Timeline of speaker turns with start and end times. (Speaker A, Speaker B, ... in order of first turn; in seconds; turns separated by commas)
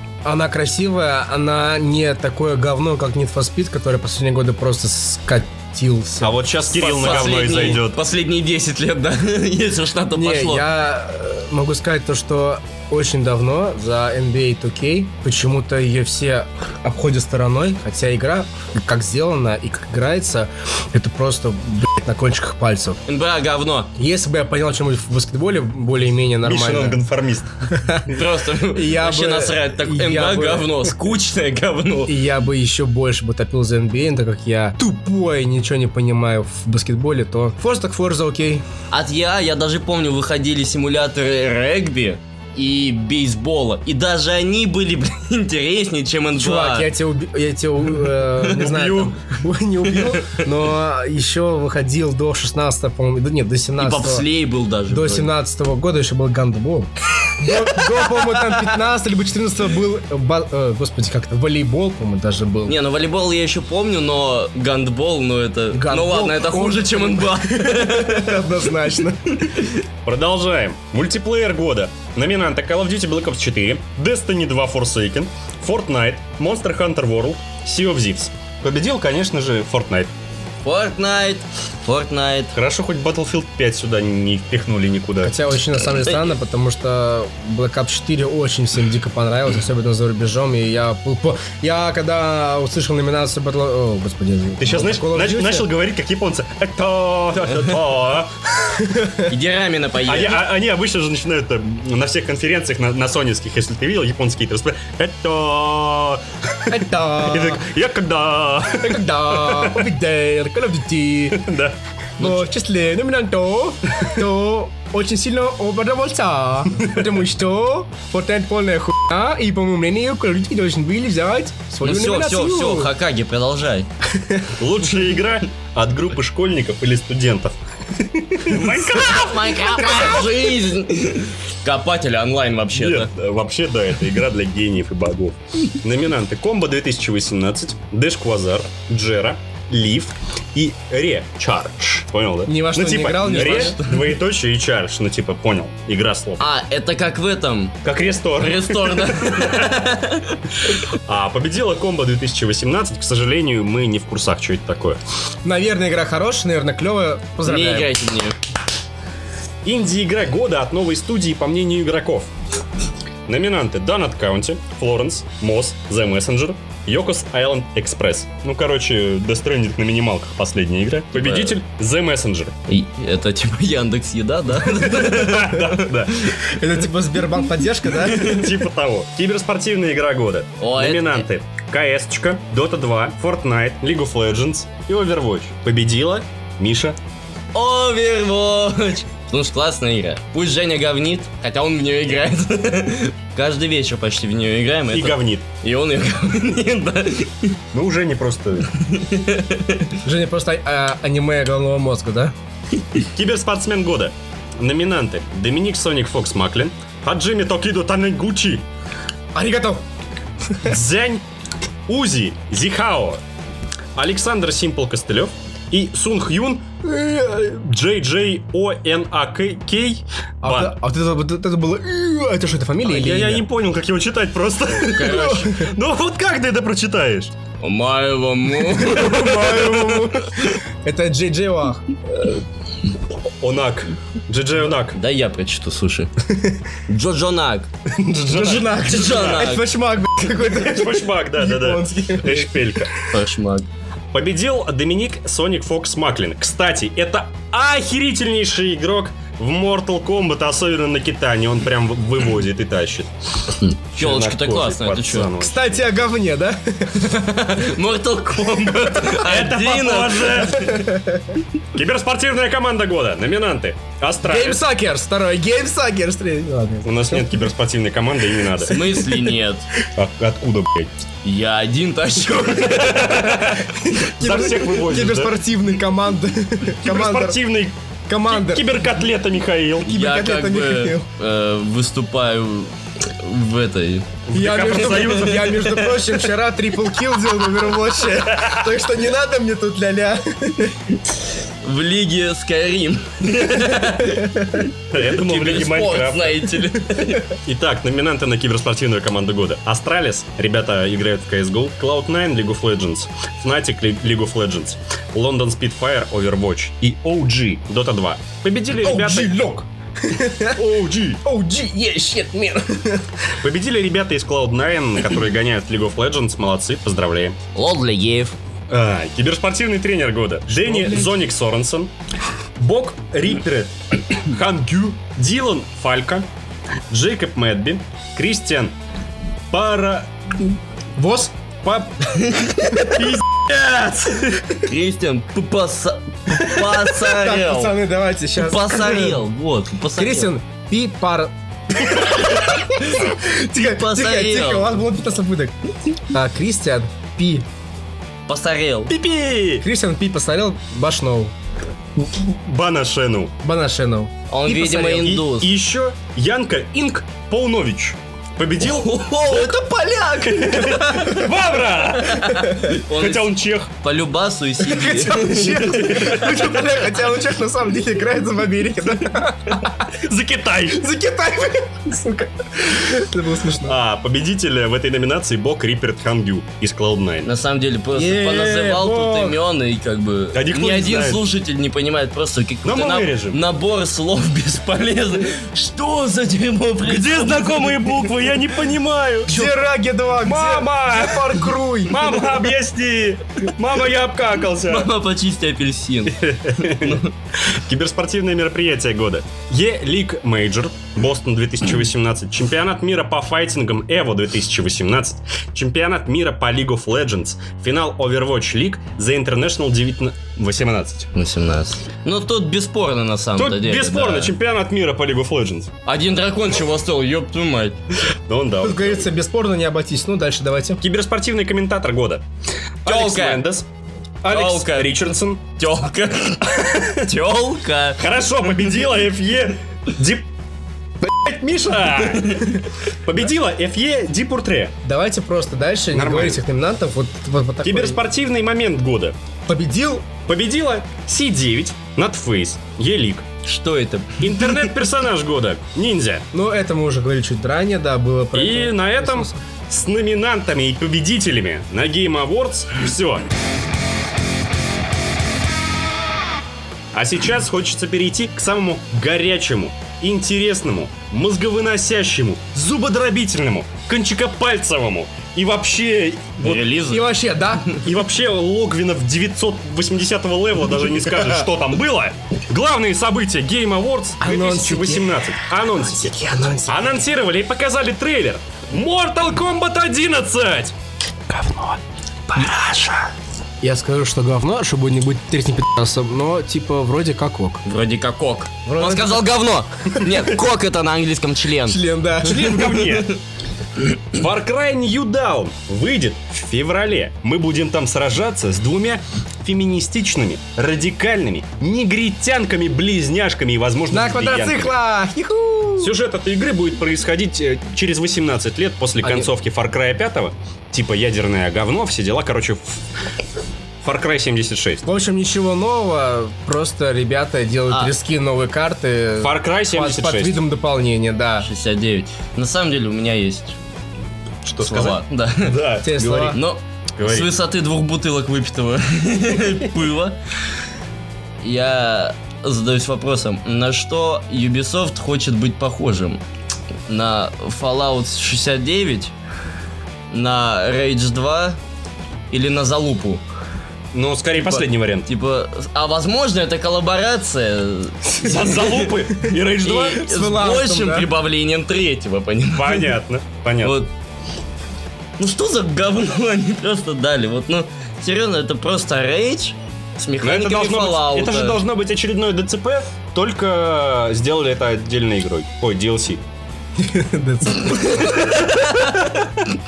Speaker A: 0.2-6.4, Speaker B: 6.2-8.0, Speaker C: 6.7-10.7, Speaker A: 10.1-23.0, Speaker C: 23.1-23.9, Speaker A: 23.9-27.0, Speaker B: 26.4-27.5, Speaker A: 27.7-28.1, Speaker C: 28.1-32.2, Speaker A: 28.7-30.9, Speaker A: 32.0-38.6, Speaker C: 38.9-46.9, Speaker A: 46.3-54.2, Speaker B: 48.5-49.2, Speaker C: 53.8-55.3, Speaker A: 54.9-62.8, Speaker C: 62.7-68.6, Speaker A: 65.7-69.5, Speaker B: 70.0-80.1, Speaker C: 80.6-82.5, Speaker B: 82.5-85.3, Speaker A: 85.2-95.7, Speaker C: 86.0-86.3, Speaker B: 94.6-98.3, Speaker A: 98.7-99.3, Speaker C: 99.3-100.4, Speaker B: 100.0-109.9, Speaker A: 106.7-107.6, Speaker A: 108.8-111.4, Speaker B: 111.3-111.8, Speaker A: 112.2-122.9, Speaker B: 116.8-117.1, Speaker C: 121.8-123.9, Speaker B: 124.6-130.2, Speaker C: 128.5-133.1, Speaker B: 132.7-146.4, Speaker A: 142.5-143.8, Speaker C: 143.2-144.1, Speaker C: 146.4-147.8, Speaker B: 147.8-149.7, Speaker C: 148.4-150.4, Speaker B: 150.9-155.0, Speaker A: 155.4-157.9, Speaker C: 157.4-158.3, Speaker B: 159.6-162.3, Speaker B: 163.3-172.5, Speaker C: 171.2-171.5, Speaker C: 172.7-175.9, Speaker B: 175.0-176.3, Speaker A: 176.4-178.5, Speaker B: 178.0-187.0, Speaker C: 180.6-181.2, Speaker C: 187.5-197.6, Speaker B: 194.9-195.5, Speaker B: 197.7-198.7, Speaker C: 198.7-200.0, Speaker A: 200.0-202.3, Speaker B: 203.1-208.7, Speaker A: 209.3-209.8, Speaker B: 210.6-211.2, Speaker B: 211.9-213.2, Speaker B: 213.9-220.8, Speaker A: 220.4-223.4, Speaker B: 222.8-227.3, Speaker C: 224.8-225.6, Speaker A: 225.0-225.7, Speaker C: 227.6-230.5, Speaker A: 228.8-232.4, Speaker B: 233.4-235.0, Speaker C: 234.9-236.1, Speaker A: 236.3-236.6, Speaker C: 236.9-237.7, Speaker B: 237.9-239.4, Speaker A: 238.3-242.7, Speaker C: 238.5-239.7, Speaker B: 240.5-242.9, Speaker C: 243.1-243.7, Speaker B: 244.1-253.1, Speaker C: 253.6-255.3, Speaker B: 253.9-255.7, Speaker A: 255.4-257.5, Speaker C: 257.1-260.7, Speaker B: 259.1-260.7, Speaker A: 260.5-261.4, Speaker B: 261.7-264.6, Speaker A: 264.2-267.4, Speaker B: 266.8-268.8, Speaker C: 268.6-269.7, Speaker A: 268.7-269.0, Speaker B: 269.9-270.9, Speaker C: 271.2-273.6, Speaker A: 273.4-277.4, Speaker B: 274.2-275.4, Speaker B: 276.8-279.9, Speaker A: 278.1-278.8, Speaker A: 279.9-281.1, Speaker C: 279.9-284.2, Speaker B: 284.3-285.7, Speaker A: 284.3-290.8, Speaker C: 284.8-286.2, Speaker C: 291.6-297.3, Speaker A: 294.0-294.6, Speaker B: 294.9-296.5, Speaker B: 297.4-309.5, Speaker A: 308.8-310.6, Speaker B: 310.5-311.2, Speaker A: 311.2-313.1, Speaker B: 313.4-317.4, Speaker C: 317.5-318.3, Speaker B: 318.7-321.9, Speaker A: 320.5-321.1, Speaker B: 322.6-326.3, Speaker B: 326.9-328.7, Speaker B: 329.5-330.1, Speaker A: 331.0-331.3, Speaker B: 331.6-332.0, Speaker C: 332.1-333.0, Speaker B: 332.9-334.4, Speaker C: 334.6-337.8, Speaker A: 336.3-339.2, Speaker C: 338.4-340.3, Speaker A: 339.9-345.6, Speaker C: 343.5-344.8, Speaker A: 346.1-347.4, Speaker C: 348.3-348.9, Speaker B: 348.9-349.6, Speaker A: 349.6-351.3, Speaker B: 352.2-353.3, Speaker A: 353.4-355.2, Speaker C: 354.3-355.5, Speaker B: 355.2-359.0, Speaker C: 358.6-361.2, Speaker A: 359.2-361.2, Speaker B: 360.9-363.7, Speaker C: 362.0-366.6, Speaker A: 362.3-362.7, Speaker A: 364.6-369.8, Speaker B: 365.9-366.4, Speaker B: 369.9-370.9, Speaker A: 370.7-373.8, Speaker B: 373.6-377.2, Speaker C: 377.2-388.1, Speaker A: 377.9-379.4, Speaker B: 380.3-381.3, Speaker B: 382.6-383.4, Speaker B: 386.8-389.5, Speaker A: 389.2-392.3, Speaker B: 390.2-394.9, Speaker C: 394.7-397.1, Speaker B: 396.1-411.1, Speaker C: 411.1-414.3, Speaker B: 413.4-415.7, Speaker C: 415.9-417.8, Speaker B: 418.3-419.1, Speaker A: 418.6-420.8, Speaker B: 420.8-422.2, Speaker B: 422.8-423.7, Speaker C: 422.9-423.4, Speaker B: 424.2-425.5, Speaker C: 424.3-425.0, Speaker C: 425.6-428.1, Speaker B: 426.6-427.1, Speaker B: 428.0-430.3, Speaker B: 431.2-434.7, Speaker C: 432.1-432.4, Speaker A: 434.8-438.0, Speaker B: 435.9-436.4, Speaker B: 437.6-439.1, Speaker A: 439.5-440.1, Speaker B: 440.2-443.3, Speaker C: 443.4-444.7, Speaker B: 444.2-446.2, Speaker A: 446.3-449.4, Speaker B: 448.3-453.3, Speaker B: 456.9-466.7, Speaker C: 466.4-467.2, Speaker A: 466.9-467.8, Speaker B: 467.8-476.1, Speaker A: 474.2-477.0, Speaker B: 476.7-480.7, Speaker A: 481.3-481.8, Speaker C: 482.4-482.9, Speaker A: 483.6-487.6, Speaker C: 487.6-491.8, Speaker A: 488.6-489.3, Speaker A: 491.6-492.8, Speaker B: 492.2-493.1, Speaker C: 492.4-493.2, Speaker B: 494.1-504.7, Speaker A: 503.9-505.9, Speaker B: 505.8-512.8, Speaker B: 513.8-514.8, Speaker A: 514.8-521.5, Speaker B: 519.2-520.4, Speaker C: 521.4-523.6, Speaker B: 524.4-526.4, Speaker C: 524.6-525.6, Speaker A: 525.8-526.4, Speaker C: 526.3-530.1, Speaker B: 527.0-527.3, Speaker C: 531.4-536.2, Speaker C: 536.9-539.1, Speaker C: 540.1-541.6, Speaker C: 542.3-543.2, Speaker B: 543.9-545.1, Speaker C: 544.4-553.0, Speaker B: 548.2-550.0, Speaker A: 549.9-551.1, Speaker B: 552.5-553.8, Speaker C: 553.6-553.9, Speaker C: 555.2-561.6, Speaker B: 560.2-566.2, Speaker A: 566.8-568.5, Speaker C: 567.6-569.5